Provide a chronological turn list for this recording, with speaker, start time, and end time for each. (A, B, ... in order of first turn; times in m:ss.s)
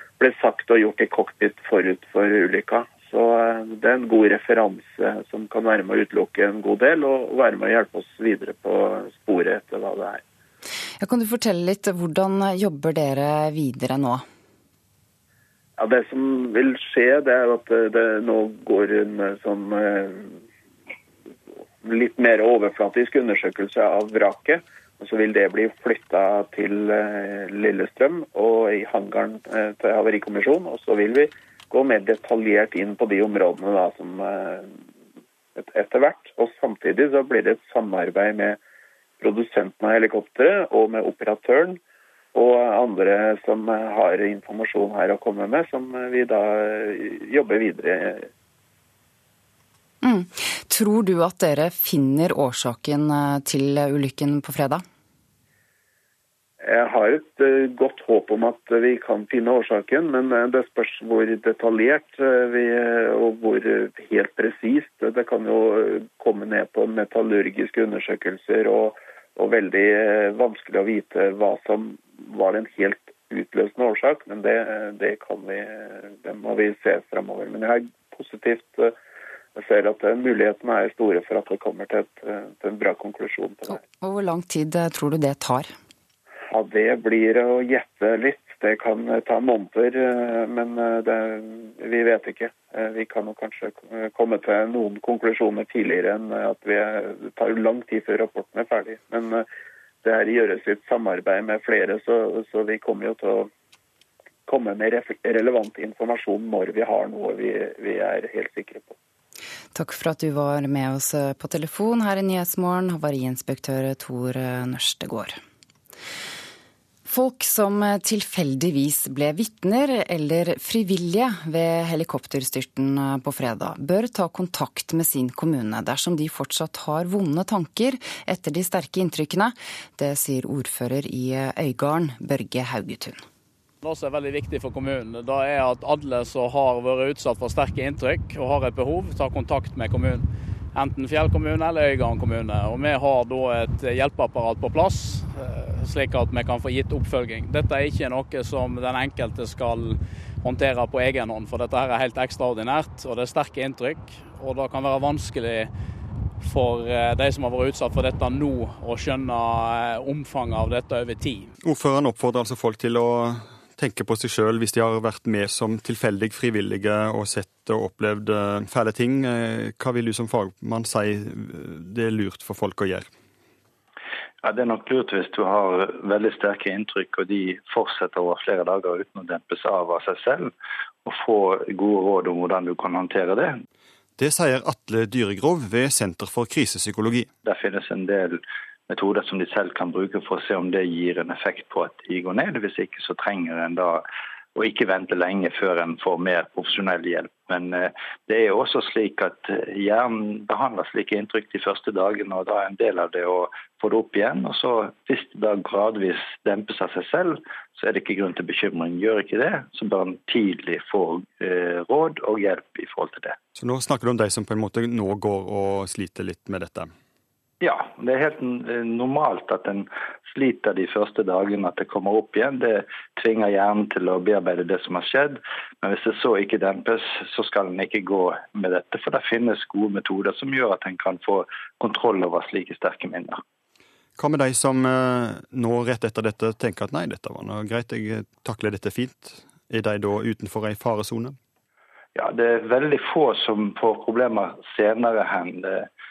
0:00.2-0:10.2 A
0:11.0-0:14.2 B
0:15.8-0:20.4 A
0:21.8-0:34.8 A
0:35.6-0:38.6 A
0:39.2-0:41.8 A
0:42.3-0:48.3 A
0:50.0-0:54.8 B
0:56.6-1:18.9 A
1:19.6-1:23.8 A
1:23.7-1:25.7 B
1:26.5-1:39.4 A
1:40.0-1:43.5 A
1:44.5-1:49.0 A
1:49.7-1:55.4 B
1:57.1-2:13.2 B
2:13.8-2:35.7 C
2:36.4-2:41.5 C
2:41.6-2:53.1 D
2:54.4-3:00.5 E
3:01.0-3:03.6 E
3:04.2-3:07.3 D
3:07.4-3:14.0 E
3:14.6-3:33.4 E
3:33.6-3:36.9 D
3:37.6-3:53.4 E
3:54.2-4:01.4 D
4:02.2-4:05.9 E